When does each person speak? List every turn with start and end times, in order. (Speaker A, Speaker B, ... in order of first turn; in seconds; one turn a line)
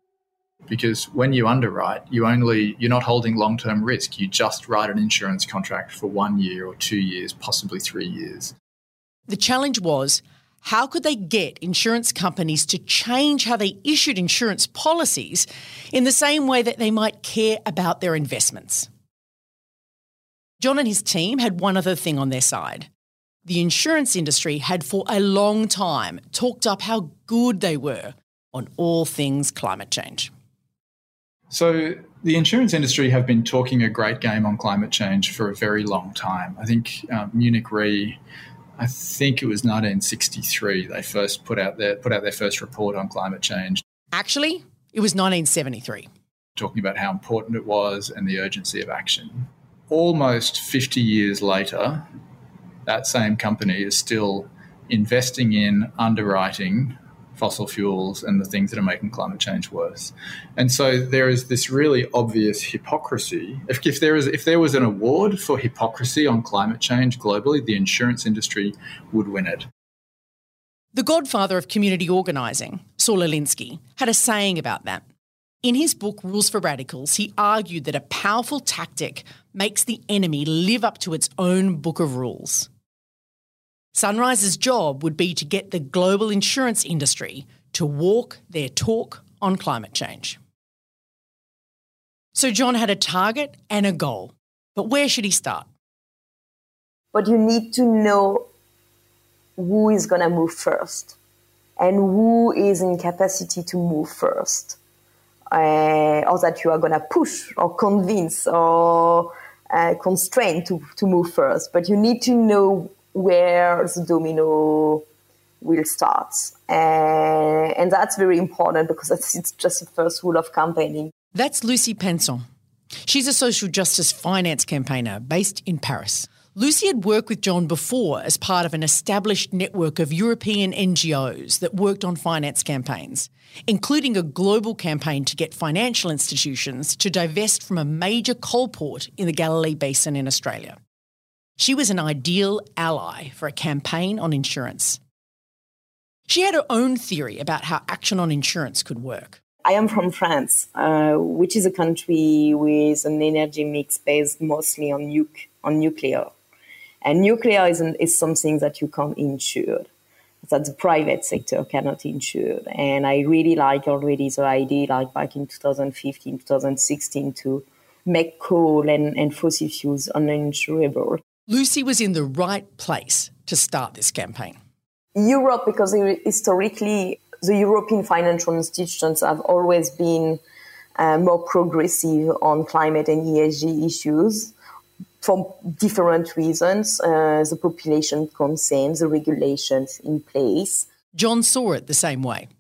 Speaker A: 0.7-8.5
Speaker B: 9.3-18.9
Speaker B: 20.6-22.9
Speaker B: 23.5-30.3
Speaker A: 31.5-38.2
Speaker A: 38.8-43.8
Speaker B: 44.1-46.1
Speaker A: 46.6-52.1
Speaker A: 52.9-69.7
Speaker B: 70.9-75.0
Speaker B: 75.6-82.7
Speaker B: 83.9-90.4
Speaker B: 92.3-95.7
Speaker C: 97.1-98.5
Speaker C: 99.6-101.2
Speaker C: 101.8-104.8
Speaker C: 105.5-115.0
Speaker C: 115.6-121.1
Speaker B: 121.3-122.5
Speaker B: 123.0-140.8
Speaker B: 141.6-145.0
Speaker B: 146.3-149.4
Speaker C: 149.7-156.3
Speaker C: 157.0-159.9
Speaker C: 160.4-171.2
Speaker B: 171.5-174.6
Speaker C: 175.2-180.4
Speaker C: 181.0-184.5
Speaker C: 185.2-190.9
Speaker B: 191.2-192.5